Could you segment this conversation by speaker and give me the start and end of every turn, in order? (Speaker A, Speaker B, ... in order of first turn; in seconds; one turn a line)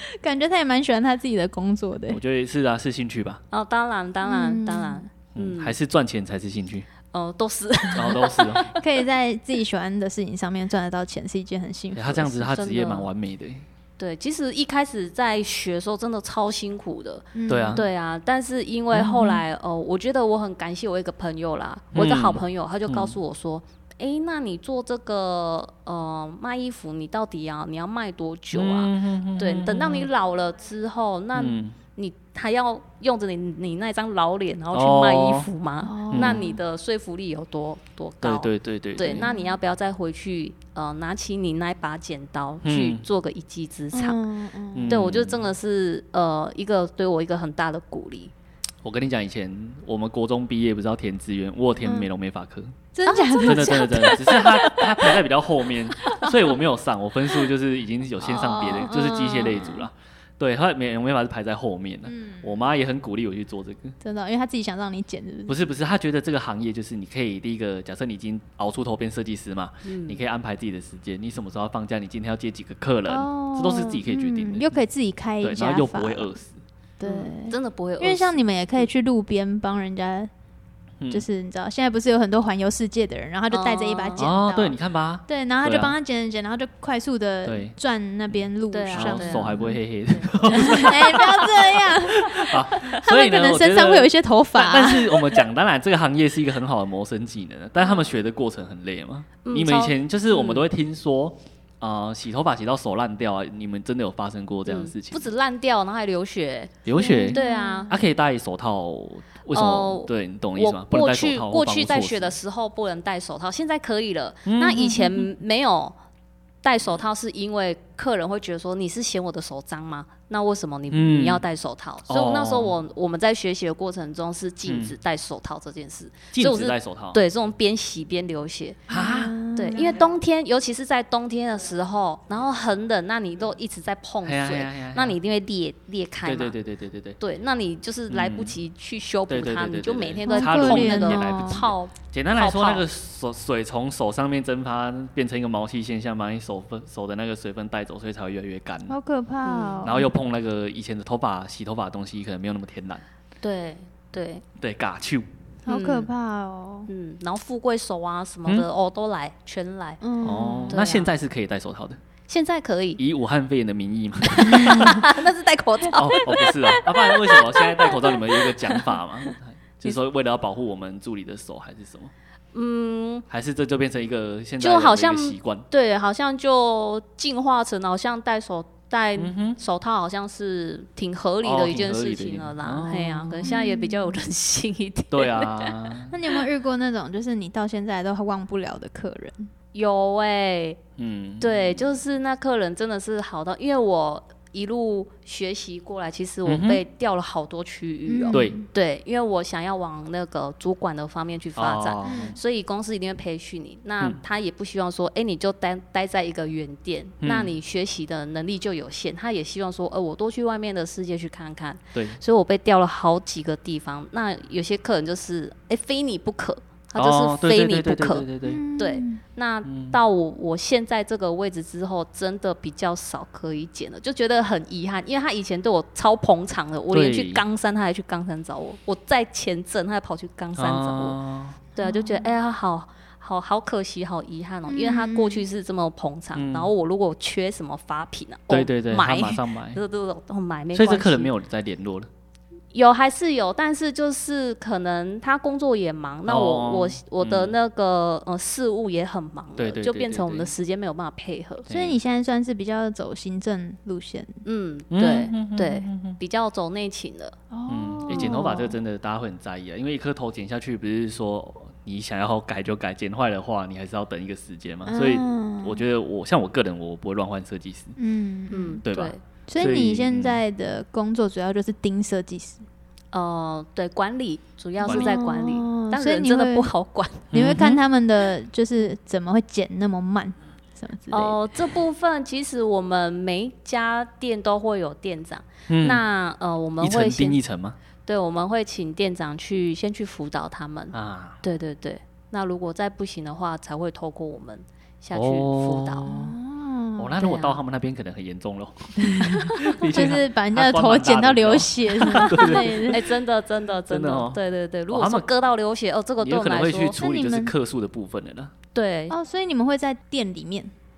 Speaker A: 0.2-2.2
Speaker B: 2.1-3.4
Speaker C: 3.5-5.8
Speaker A: 4.2-5.1
Speaker B: 5.3-6.9
Speaker C: 7.1-8.7
Speaker B: 7.9-8.7
Speaker A: 8.7-12.6
Speaker B: 11.9-13.6
Speaker C: 12.5-13.1
Speaker C: 14.0-44.2
Speaker A: 17.3-17.8
Speaker B: 17.5-17.8
Speaker B: 18.9-19.4
Speaker B: 21.9-23.1
Speaker B: 28.5-30.1
Speaker B: 31.3-31.7
Speaker B: 34.7-35.5
Speaker A: 35.8-36.6
Speaker B: 36.1-36.4
Speaker B: 38.2-39.3
Speaker A: 39.0-39.6
Speaker B: 42.6-43.0
Speaker A: 43.9-45.0
Speaker B: 44.7-45.5
Speaker C: 44.9-48.3
Speaker B: 48.8-52.7
Speaker A: 52.9-55.2
Speaker C: 53.0-54.0
Speaker B: 53.4-64.0
Speaker A: 56.0-56.3
Speaker A: 58.2-59.9
Speaker A: 62.1-62.5
Speaker A: 64.0-65.6
Speaker B: 65.5-74.7
Speaker C: 69.9-70.2
Speaker A: 73.1-76.3
Speaker B: 75.4-76.6
Speaker A: 77.0-80.3
Speaker C: 77.0-78.8
Speaker B: 81.0-81.2
Speaker A: 81.1-84.8
Speaker C: 83.5-84.3
Speaker B: 84.2-85.9
Speaker A: 85.3-89.8
Speaker B: 87.4-87.7
Speaker C: 88.7-91.0
Speaker B: 88.9-105.2
Speaker A: 90.5-95.2
Speaker C: 99.4-100.6
Speaker C: 104.7-107.9
Speaker B: 106.8-112.4
Speaker A: 107.0-108.0
Speaker C: 109.5-115.9
Speaker B: 114.5-115.2
Speaker C: 116.6-128.9
Speaker B: 120.9-121.4
Speaker B: 122.1-122.7
Speaker B: 124.7-124.9
Speaker B: 126.3-127.2
Speaker B: 128.9-129.3
Speaker A: 128.9-130.0
Speaker C: 129.5-136.6
Speaker B: 134.2-135.2
Speaker B: 136.2-137.2
Speaker C: 137.2-142.8
Speaker B: 138.1-138.6
Speaker B: 139.3-148.9
Speaker A: 140.3-141.6
Speaker A: 148.9-150.1
Speaker C: 149.4-149.9
Speaker B: 149.8-153.0
Speaker C: 153.4-154.4
Speaker B: 154.6-155.3
Speaker A: 155.7-156.9
Speaker C: 155.7-156.1
Speaker C: 156.9-160.0
Speaker A: 160.0-160.8
Speaker B: 160.2-162.0
Speaker C: 160.7-161.1
Speaker C: 162.3-163.0
Speaker B: 163.0-165.1
Speaker C: 164.3-169.3
Speaker B: 165.9-172.1
Speaker C: 172.5-173.2
Speaker B: 173.3-175.7
Speaker C: 174.6-185.9
Speaker B: 179.2-179.6
Speaker B: 181.4-183.5
Speaker A: 183.4-184.2
Speaker B: 185.1-186.1
Speaker A: 186.1-189.5
Speaker C: 189.7-190.8
Speaker B: 191.0-191.8
Speaker C: 191.4-231.2
Speaker B: 196.4-196.8
Speaker A: 198.1-198.7
Speaker B: 201.6-202.3
Speaker A: 202.0-202.4
Speaker B: 207.2-207.5
Speaker B: 211.9-212.2
Speaker B: 216.9-218.6
Speaker A: 218.4-219.2
Speaker B: 219.6-220.0
Speaker B: 226.9-227.4
Speaker B: 230.6-231.6
Speaker C: 231.7-241.3
Speaker A: 231.8-232.3
Speaker A: 234.7-235.4
Speaker B: 236.3-236.7
Speaker B: 238.5-239.8
Speaker B: 240.7-242.1
Speaker C: 242.7-251.7
Speaker B: 246.2-247.6
Speaker B: 249.6-250.5
Speaker B: 251.7-252.0
Speaker A: 251.7-254.4
Speaker C: 254.4-257.4
Speaker B: 254.9-256.2
Speaker A: 257.5-258.8
Speaker B: 257.7-267.9
Speaker A: 264.9-265.8
Speaker A: 268.0-268.8
Speaker C: 268.5-269.2
Speaker B: 268.8-270.4
Speaker A: 269.5-272.6
Speaker C: 273.1-277.3
Speaker B: 274.8-275.2
Speaker A: 274.8-276.7
Speaker B: 277.3-277.8
Speaker A: 277.3-281.4
Speaker C: 281.1-287.4
Speaker B: 285.7-286.0
Speaker B: 286.8-287.8
Speaker C: 288.1-296.1
Speaker B: 290.9-291.4
Speaker B: 295.1-296.4
Speaker A: 296.1-297.5
Speaker B: 297.0-303.1
Speaker A: 299.0-303.0
Speaker C: 302.3-307.1
Speaker B: 303.9-304.4
Speaker B: 304.9-305.3
Speaker B: 306.2-308.5
Speaker A: 307.0-307.5
Speaker C: 308.7-309.1
Speaker A: 309.1-310.7